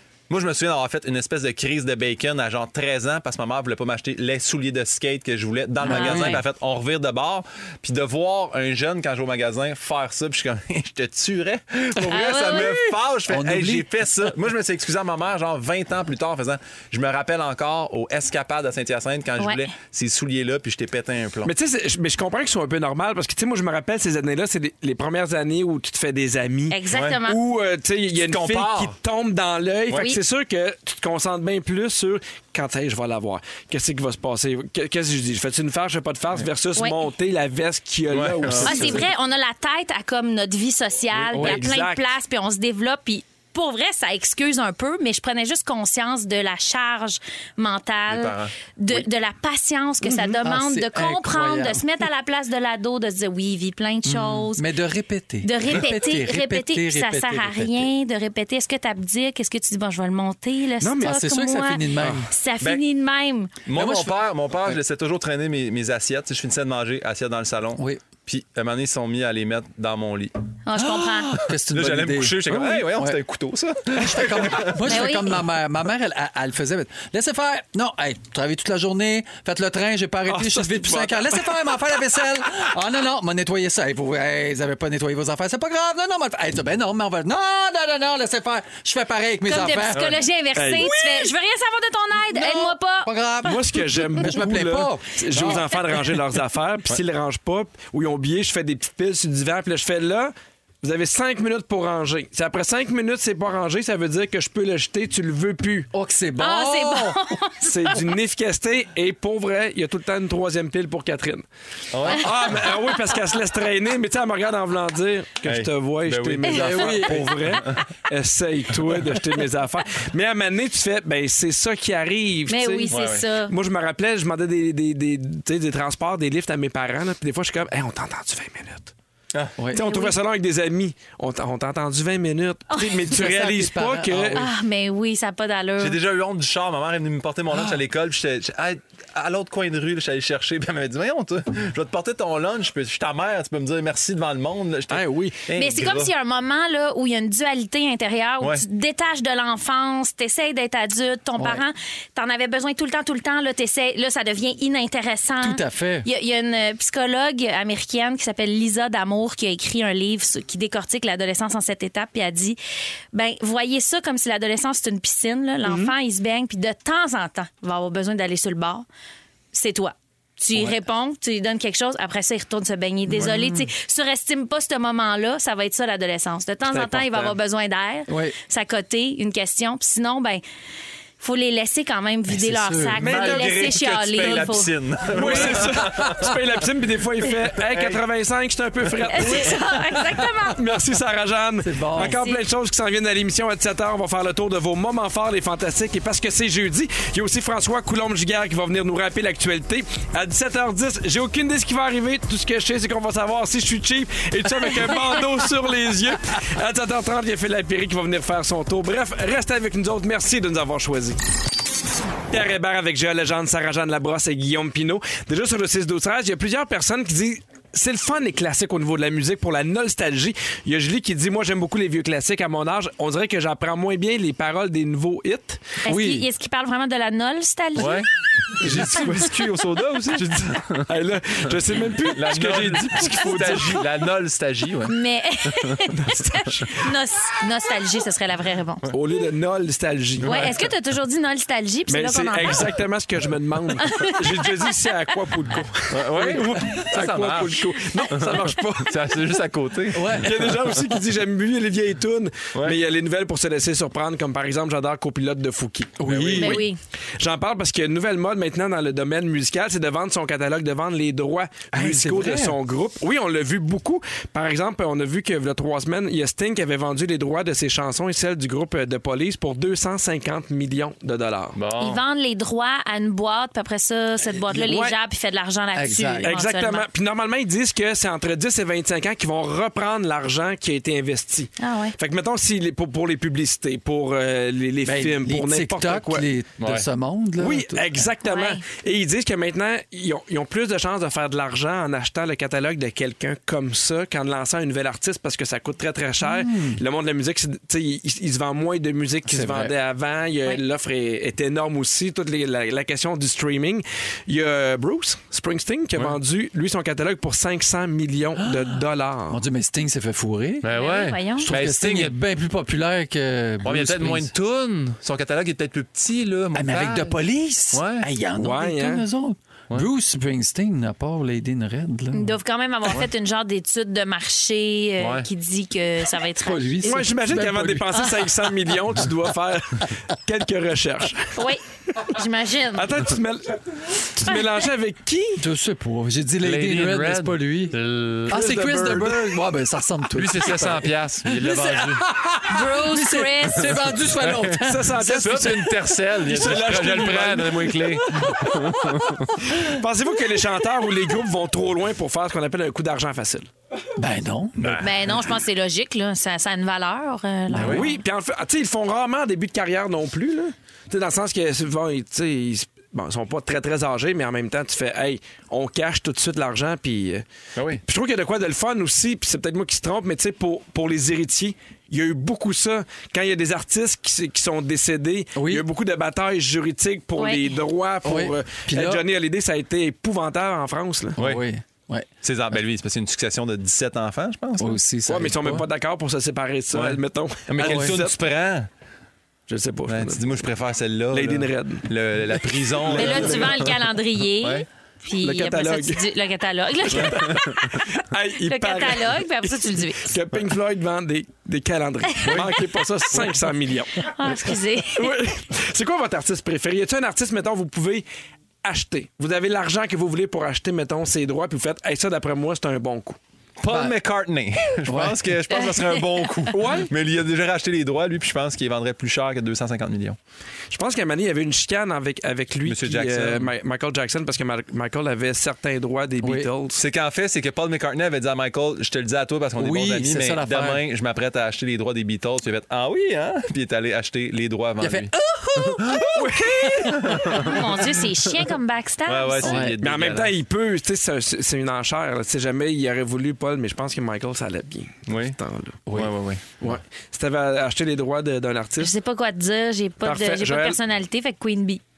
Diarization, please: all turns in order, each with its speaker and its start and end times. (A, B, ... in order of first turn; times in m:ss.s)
0:00.3-0:21.5 A
0:05.8-0:06.4 B
0:05.8-0:06.4 C
0:12.1-0:12.8 C
0:12.3-0:14.1 B
0:19.4-0:19.7 C
0:21.4-0:39.1 D
0:26.7-0:27.4 C
0:26.9-0:27.2 A
0:28.1-0:29.0 A
0:29.9-0:30.2 C
0:38.1-0:39.0 A
0:38.6-0:54.6 C
0:41.2-0:42.1 D
0:41.3-0:41.7 B
0:48.1-0:49.0 A
0:50.0-0:50.4 D
0:50.4-0:51.8 B
0:54.0-0:57.9 B
0:55.4-1:03.5 C
1:00.8-1:01.2 D
1:01.0-1:02.3 B
1:03.7-1:10.3 A
1:03.7-1:04.8 B
1:07.8-1:08.0 B
1:10.7-1:11.4 C
1:11.3-1:13.2 B
1:11.3-1:15.1 A
1:14.0-1:30.2 B
1:14.9-1:15.4 C
1:20.3-1:21.6 D
1:29.4-1:33.5 C
1:29.9-1:30.2 A
1:30.6-1:30.9 D
1:32.3-1:35.7 B
1:33.4-1:45.9 D
1:45.9-1:47.2 B
1:46.4-1:48.0 C
1:47.7-1:51.5 D
1:51.9-1:52.6 A
1:52.0-2:02.9 D
1:55.4-1:57.8 A
1:56.4-1:57.6 B
2:02.5-2:03.5 C
2:02.9-2:03.2 A
2:03.5-2:08.9 D
2:09.7-2:14.4 D
2:09.8-2:10.2 C
2:13.1-2:14.5 B
2:14.4-2:16.0 C
2:15.8-2:26.1 A
2:17.5-2:17.8 B
2:24.9-2:25.4 D
2:25.6-2:42.6 C
2:31.4-2:31.6 B
2:35.4-2:36.1 B
2:43.1-2:48.9 C
2:45.7-2:45.9 D
2:49.5-3:00.4 C
2:53.1-2:53.7 B
2:56.7-2:57.3 D
2:58.1-2:58.4 B
3:01.2-3:04.7 C
3:02.3-3:03.5 B
3:03.0-3:06.3 A
3:05.1-3:09.6 D
3:05.1-3:06.4 B
3:07.6-3:08.0 A
3:09.1-3:10.6 C
3:10.5-3:31.2 D
3:11.6-3:12.2 B
3:12.0-3:12.4 C
3:32.3-3:45.6 D
3:45.8-3:48.0 C
3:45.9-3:46.3 B
3:47.8-3:50.9 A
3:48.6-3:49.2 D
3:50.9-3:53.9 D
3:52.1-3:55.9 A
3:54.9-3:58.9 C
3:58.9-4:00.5 D
4:00.2-4:00.6 A
4:00.2-4:02.7 C
4:01.9-4:09.1 D
4:03.8-4:04.9 C
4:05.9-4:10.6 A
4:09.9-4:10.5 B
4:10.1-4:16.6 D
4:16.0-4:16.7 B
4:16.1-4:16.4 A
4:16.4-4:16.8 C
4:17.2-4:31.6 D
4:21.7-4:22.6 B
4:31.6-4:32.0 A
4:31.8-4:36.9 C
4:34.4-4:34.7 B
4:34.7-4:35.0 D
4:35.8-4:36.3 B
4:36.2-4:46.2 D
4:41.6-4:42.0 C
4:44.8-4:48.1 B
4:46.6-4:46.9 A
4:47.4-5:09.4 D
4:48.2-4:48.6 C
4:56.2-4:56.8 B
4:59.3-4:59.7 B
5:08.4-5:10.7 B
5:10.6-5:12.2 A
5:10.7-5:11.5 C
5:11.3-5:14.3 B
5:13.6-5:17.2 A
5:16.5-5:22.4 B
5:17.7-5:18.1 A
5:18.4-5:19.0 D
5:22.1-5:26.7 C
5:25.0-5:25.3 A
5:26.4-5:27.9 B
5:26.8-5:31.4 D
5:31.4-5:32.9 C
5:32.7-5:35.4 D
5:35.4-5:46.3 B
5:36.4-5:39.2 A
5:38.3-5:39.0 D
5:40.1-5:42.1 A
5:42.5-5:43.8 C
5:43.6-5:49.3 A
5:44.6-5:48.0 D
5:47.8-5:49.7 B
5:49.5-5:53.5 D
5:54.0-5:54.8 B
5:54.6-5:55.2 A
5:54.8-5:58.0 C
5:57.5-5:57.8 B
5:57.6-5:57.8 A
5:57.6-6:07.2 D
6:07.6-6:07.8 A
6:07.9-6:21.2 D
6:15.4-6:15.6 B
6:17.2-6:17.5 C
6:18.0-6:19.0 B
6:21.2-6:22.1 B
6:21.2-6:21.4 A
6:22.2-6:24.8 A
6:24.6-6:25.7 B
6:25.1-6:28.2 D
6:26.7-6:28.7 A
6:27.6-6:28.0 B
6:29.5-6:30.4 D
6:29.9-6:33.8 A
6:31.1-6:33.7 D
6:32.9-6:40.2 C
6:34.4-6:34.7 A
6:35.2-6:36.0 D
6:36.9-6:37.6 A
6:37.0-6:44.1 D
6:42.2-6:43.4 A
6:44.0-6:45.1 C
6:44.9-6:48.1 D
6:48.6-6:53.2 D
6:53.6-7:00.2 A
6:53.7-6:54.0 B
6:54.9-6:55.4 B
6:55.5-6:56.3 C
6:56.6-6:56.9 D
7:00.7-7:06.8 D
7:02.6-7:03.5 A
7:06.2-7:06.5 B
7:06.8-7:17.6 A
7:09.6-7:10.8 B
7:14.8-7:17.6 B
7:16.2-7:17.3 D
7:17.4-7:19.6 C
7:19.1-7:20.4 A
7:19.4-7:19.8 B
7:19.8-7:25.8 D
7:25.1-7:25.4 A
7:25.9-7:26.2 B
7:25.9-7:26.8 A
7:26.6-7:28.9 D
7:28.8-7:31.8 C
7:30.0-7:30.8 D